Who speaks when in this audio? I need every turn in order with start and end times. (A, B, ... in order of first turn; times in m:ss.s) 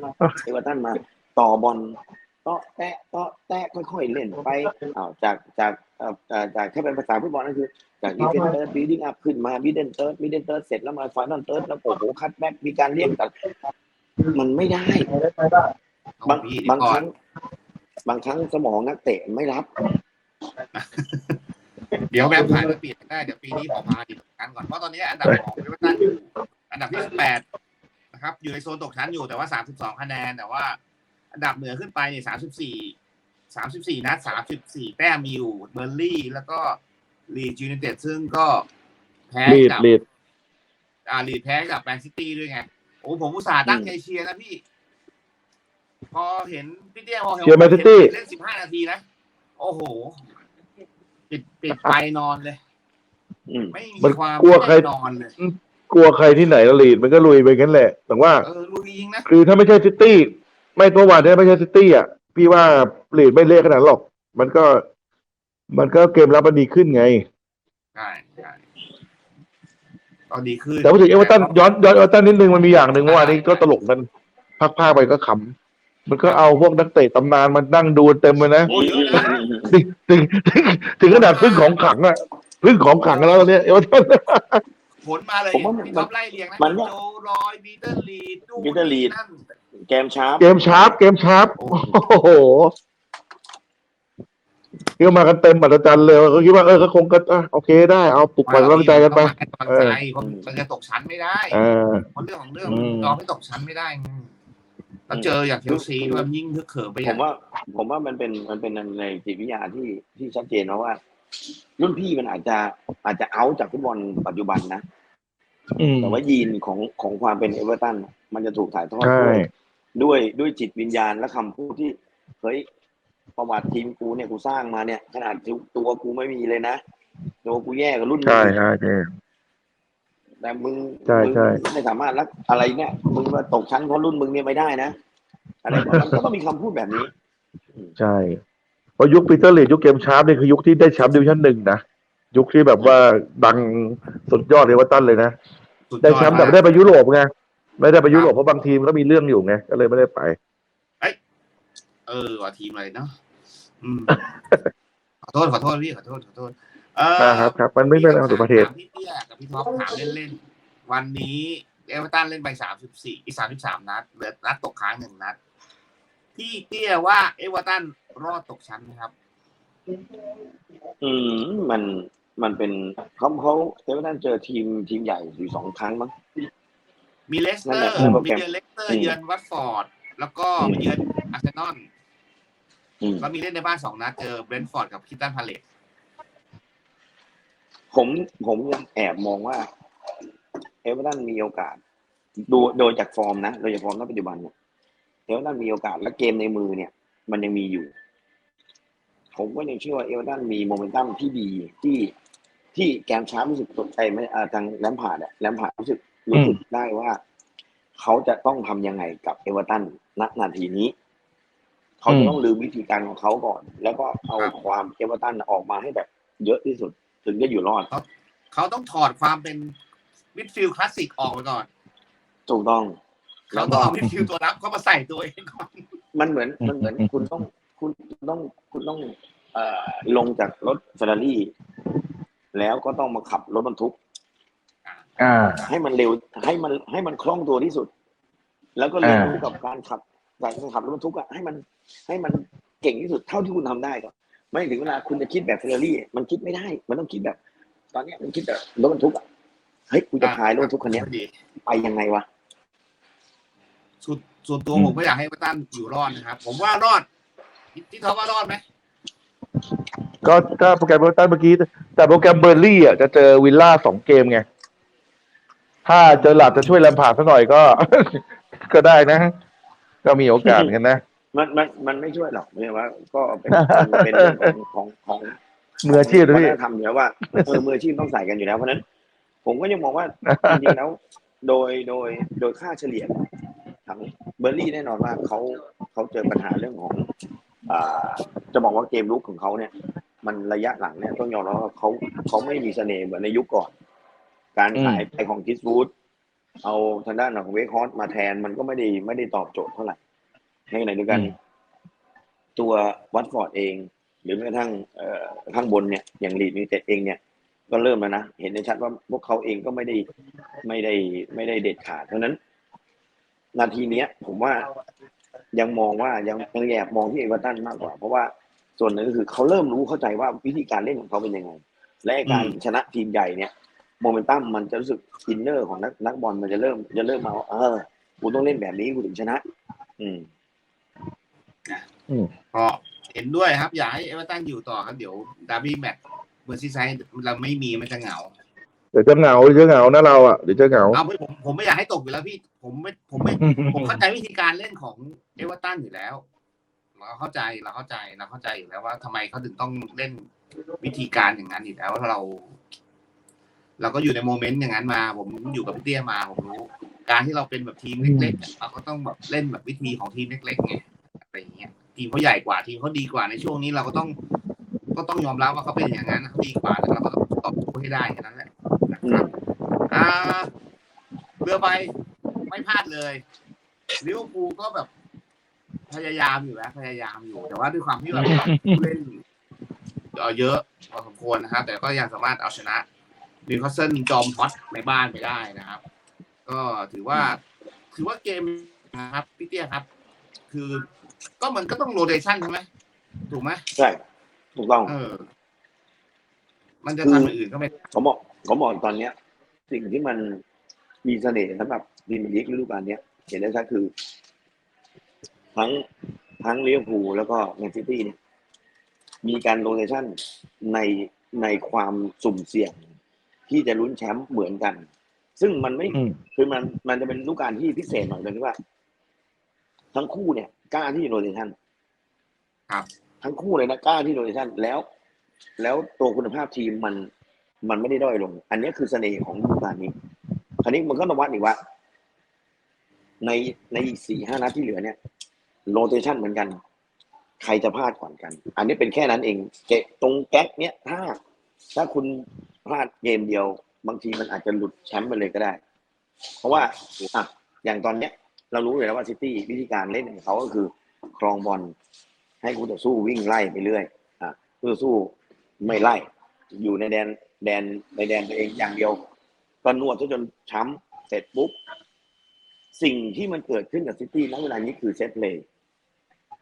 0:00.4-0:13.3 A
0:14.3-0:15.1 A
0:16.2-0:17.1 B
0:16.3-0:17.1 A
0:18.1-0:19.7 A
0:20.7-0:21.4 B
0:22.0-0:27.4 B
0:22.4-0:22.7 C
0:25.3-0:26.1 C
0:28.1-0:30.8 B
0:31.3-0:33.0 B
0:33.5-0:38.7 B
0:39.3-0:39.9 B
0:39.5-0:40.0 C
0:41.1-0:44.6 B
0:43.7-0:43.9 A
0:46.1-0:49.0 B
0:47.4-0:48.1 C
0:49.6-0:50.2 B
0:51.3-0:52.6 B
0:53.5-0:53.8 A
0:53.7-0:55.3 B
0:54.0-0:54.9 C
0:55.4-0:58.5 C
0:58.4-0:59.3 B
0:59.3-1:04.8 C
1:05.7-1:07.3 C
1:08.0-1:08.6 B
1:10.3-1:11.8 B
1:10.8-1:14.1 C
1:13.0-1:13.7 B
1:14.6-1:15.5 C
1:16.1-1:18.7 C
1:18.6-1:19.4 B
1:18.7-1:19.8 A
1:19.7-1:24.6 C
1:21.1-1:21.8 B
1:23.1-1:23.5 B
1:25.0-1:29.4 B
1:25.5-1:26.9 A
1:28.6-1:29.2 A
1:29.9-1:31.0 A
1:30.4-1:32.7 C
1:31.6-1:32.1 B
1:35.0-1:40.0 C
1:38.4-1:41.6 B
1:40.2-1:40.5 A
1:41.5-1:42.1 C
1:42.2-1:44.3 B
1:42.6-1:43.2 C
1:45.1-1:47.2 B
1:45.1-1:46.3 A
1:47.0-1:51.0 A
1:51.8-1:54.8 A
1:55.8-1:56.2 C
1:56.0-1:59.4 A
1:59.0-1:59.5 C
2:00.0-2:02.6 A
2:03.4-2:06.8 A
2:07.4-2:08.6 A
2:08.2-2:09.1 C
2:10.4-2:15.0 A
2:11.1-2:11.6 C
2:15.6-2:17.1 A
2:15.7-2:16.2 C
2:18.0-2:18.4 C
2:19.0-2:21.8 C
2:22.3-2:25.3 C
2:25.9-2:26.6 B
2:26.0-2:30.4 C
2:32.1-2:33.1 B
2:33.8-2:34.2 B
2:34.1-2:34.7 C
2:35.2-2:45.4 B
2:37.2-2:38.7 C
2:46.4-2:49.1 B
2:51.0-2:56.1 A
2:57.3-3:01.9 B
2:57.6-2:59.2 A
3:00.6-3:00.8 A
3:03.0-3:03.3 A
3:03.2-3:05.6 B
3:07.9-3:09.7 A
3:10.8-3:11.8 A
3:12.5-3:14.5 A
3:15.3-3:17.9 A
3:19.3-3:22.1 A
3:22.8-3:27.2 A
3:26.3-3:26.6 C
3:28.0-3:30.9 A
3:32.0-3:37.9 A
3:32.1-3:32.4 C
3:37.9-3:39.7 B
3:40.4-3:41.7 B
3:42.5-3:43.0 A
3:43.5-3:45.8 B
3:43.5-3:43.9 A
3:43.7-3:44.2 C
3:46.2-3:51.5 A
3:46.6-3:47.3 C
3:52.5-3:54.0 A
3:54.8-3:55.7 B
3:55.2-3:55.7 C
3:55.7-3:57.9 A
3:58.8-4:07.4 A
3:59.0-3:59.4 C
4:07.9-4:09.2 A
4:09.9-4:11.0 A
4:10.2-4:11.3 B
4:11.7-4:12.3 A
4:14.0-4:17.1 B
4:14.7-4:15.0 C
4:17.7-4:18.6 B
4:20.2-4:24.4 C
4:25.9-4:29.3 C
4:26.2-4:26.7 B
4:26.3-4:26.6 A
4:30.0-4:31.0 C
4:30.4-4:30.7 A
4:31.3-4:35.4 A
4:33.5-4:34.5 C
4:35.8-4:36.6 C
4:35.9-4:38.8 A
4:39.4-4:43.2 A
4:40.3-4:40.7 C
4:43.9-4:47.1 A
4:47.7-4:49.7 A
4:50.2-4:53.7 A
4:54.6-4:55.9 A
4:54.8-4:55.1 C
4:56.6-5:00.0 A
5:00.7-5:01.3 A
5:02.6-5:10.1 A
5:10.6-5:12.4 A
5:13.6-5:14.7 A
5:15.5-5:29.4 A
5:22.2-5:22.6 B
5:30.0-5:30.3 A
5:32.5-5:38.3 B
5:38.9-5:41.0 C
5:40.9-5:46.2 B
5:43.4-5:44.0 C
5:47.0-5:50.3 B
5:50.8-5:52.6 B
5:53.8-6:04.2 B
5:58.0-5:58.4 C
6:05.0-6:09.3 B
6:09.0-6:09.3 A
6:09.9-6:10.5 B
6:11.4-6:11.9 B
6:12.4-6:13.2 B
6:14.0-6:14.9 B
6:15.9-6:19.2 B
6:18.1-6:18.8 C
6:20.2-6:22.8 B
6:23.5-6:25.8 B
6:26.5-6:27.4 B
6:27.9-6:29.9 B
6:30.5-6:30.9 B
6:31.4-6:32.7 B
6:33.3-6:33.6 B
6:34.6-6:35.0 A
6:34.9-6:35.3 B
6:36.8-6:37.7 B
6:37.0-6:37.3 A
6:37.9-6:39.2 A
6:39.7-6:40.4 A
6:41.0-6:43.9 A
6:45.6-6:45.8 A
6:46.4-6:48.2 A
6:49.2-6:52.8 A
6:53.5-6:54.9 A
6:55.4-6:58.6 A
6:55.9-6:56.2 C
6:59.9-7:01.5 A
7:03.2-7:04.8 A
7:05.6-7:07.1 A
7:07.6-7:09.9 A
7:10.6-7:11.6 A
7:13.2-7:15.0 A
7:15.7-7:16.6 A
7:17.4-7:21.2 A
7:21.8-7:25.6 A
7:26.4-7:31.7 A
7:32.4-7:39.0 A
7:39.6-7:41.6 A
7:42.7-7:45.4 A